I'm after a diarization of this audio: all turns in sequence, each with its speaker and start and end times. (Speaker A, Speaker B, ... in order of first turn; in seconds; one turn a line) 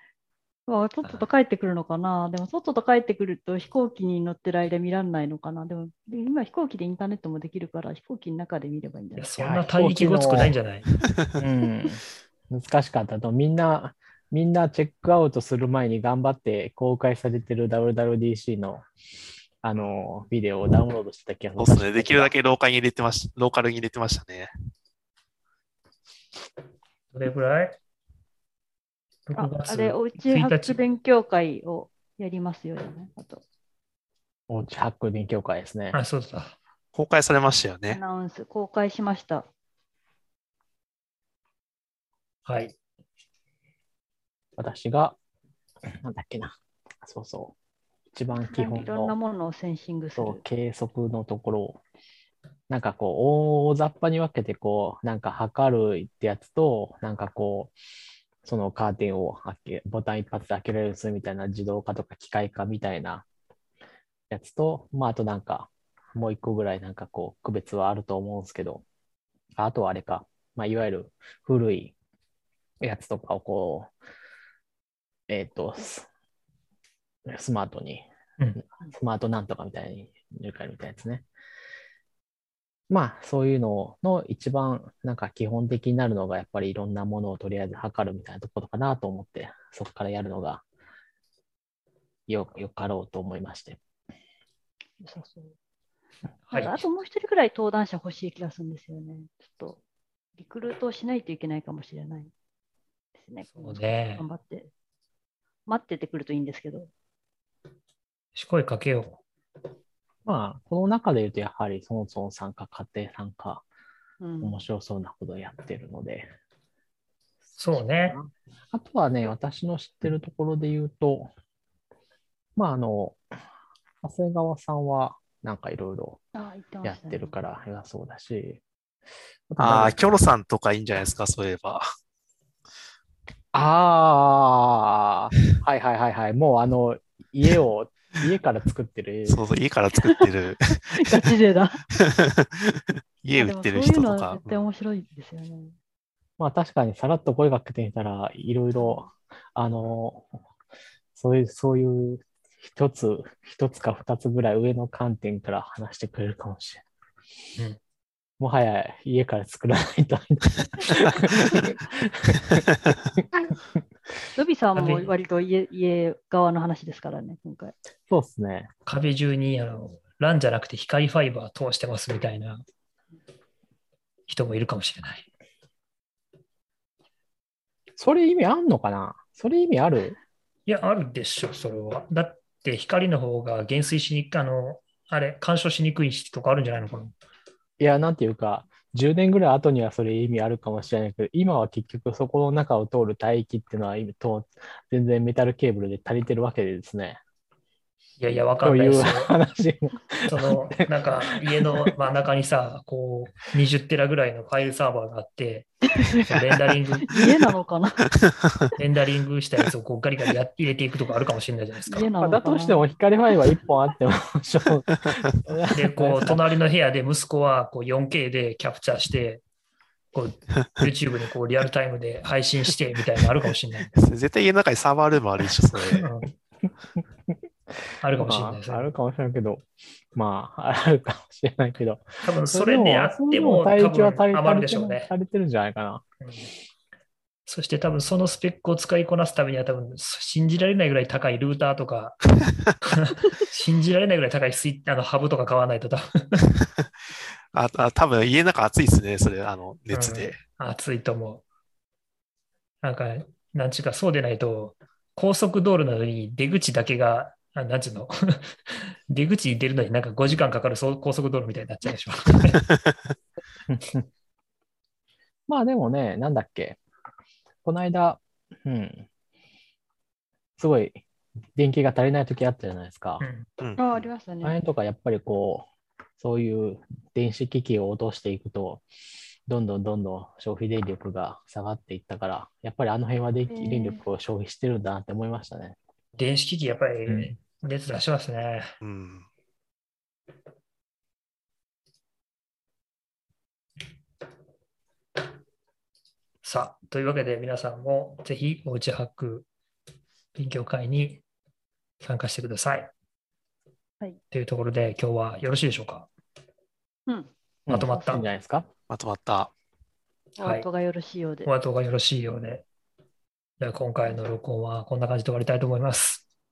Speaker A: 0.7-9.4
Speaker B: 9.2-10.9
Speaker C: 9.4-10.6
Speaker C: 11.4-18.9
Speaker C: 19.6-22.3
Speaker D: 21.6-24.5
Speaker B: 27.1-27.8
Speaker B: 29.3-30.8
Speaker A: 29.4-33.4
Speaker C: 34.5-36.0
Speaker B: 35.9-36.5
Speaker D: 36.9-38.0
Speaker A: 37.9-39.5
Speaker B: 42.5-42.7
Speaker C: 44.6-45.2
Speaker C: 46.0-47.6
Speaker C: 48.1-49.2
Speaker A: 48.3-50.4
Speaker C: 50.2-51.8
Speaker C: 52.7-57.7
Speaker C: 58.4-63.2
Speaker C: 64.3-68.8
Speaker C: 69.6-72.0
Speaker C: 72.8-73.9
Speaker C: 75.3-76.1
Speaker C: 77.3-78.1
Speaker C: 78.6-81.3
Speaker C: 82.9-90.6
Speaker C: 92.3-93.8
Speaker A: 95.0-95.5
Speaker B: 96.5-96.8
Speaker A: 96.5-99.8
Speaker A: 100.4-102.3
Speaker A: 103.2-104.7
Speaker B: 103.5-104.2
Speaker A: 105.7-106.9
Speaker B: 108.3-109.2
Speaker C: 110.2-113.7
Speaker A: 114.2-114.6
Speaker C: 114.4-116.3
Speaker B: 117.6-118.2
Speaker C: 117.7-121.3
Speaker C: 122.6-123.2
Speaker C: 124.0-126.2
Speaker A: 126.3-127.4
Speaker C: 126.8-128.6
Speaker C: 129.5-130.0
Speaker D: 129.6-131.8
Speaker C: 133.5-139.4
Speaker D: 139.3-141.2
Speaker A: 140.9-141.8
Speaker D: 141.9-144.6
Speaker A: 143.4-145.8
Speaker C: 146.4-150.3
Speaker A: 148.8-149.1
Speaker C: 151.2-156.8
Speaker C: 158.4-163.8
Speaker A: 164.3-167.8
Speaker B: 164.8-165.1
Speaker C: 168.1-168.7
Speaker B: 168.9-172.6
Speaker B: 174.3-175.3
Speaker C: 178.0-180.2
Speaker B: 180.7-187.1
Speaker C: 187.8-197.2
Speaker B: 198.2-199.3
Speaker C: 198.6-201.9
Speaker B: 200.3-207.2
Speaker A: 206.0-206.3
Speaker A: 207.1-208.0
Speaker D: 208.3-208.7
Speaker B: 208.8-212.1
Speaker A: 211.9-212.9
Speaker C: 212.2-216.4
Speaker B: 215.8-219.4
Speaker B: 220.1-223.9
Speaker D: 223.9-226.0
Speaker B: 225.9-226.3
Speaker B: 228.0-228.9
Speaker C: 228.2-236.1
Speaker B: 232.2-235.1
Speaker B: 237.5-246.5
Speaker D: 247.5-250.4
Speaker B: 249.9-251.4
Speaker B: 252.8-262.7
Speaker C: 263.7-264.1
Speaker C: 265.5-266.8
Speaker C: 267.6-269.1
Speaker C: 270.6-271.0
Speaker C: 271.6-273.2
Speaker B: 273.2-273.5
Speaker A: 273.8-274.6
Speaker C: 274.4-275.7
Speaker C: 276.2-278.9
Speaker C: 279.5-285.8
Speaker A: 283.5-284.0
Speaker B: 286.2-288.7
Speaker D: 288.8-289.3
Speaker B: 296.4-299.5
Speaker B: 300.4-301.2
Speaker B: 302.0-302.9
Speaker B: 304.3-306.1
Speaker C: 307.7-308.7
Speaker B: 307.7-308.3
Speaker D: 308.9-309.5
Speaker A: 310.4-311.5
Speaker B: 310.4-310.7
Speaker B: 311.4-312.6
Speaker B: 313.6-316.2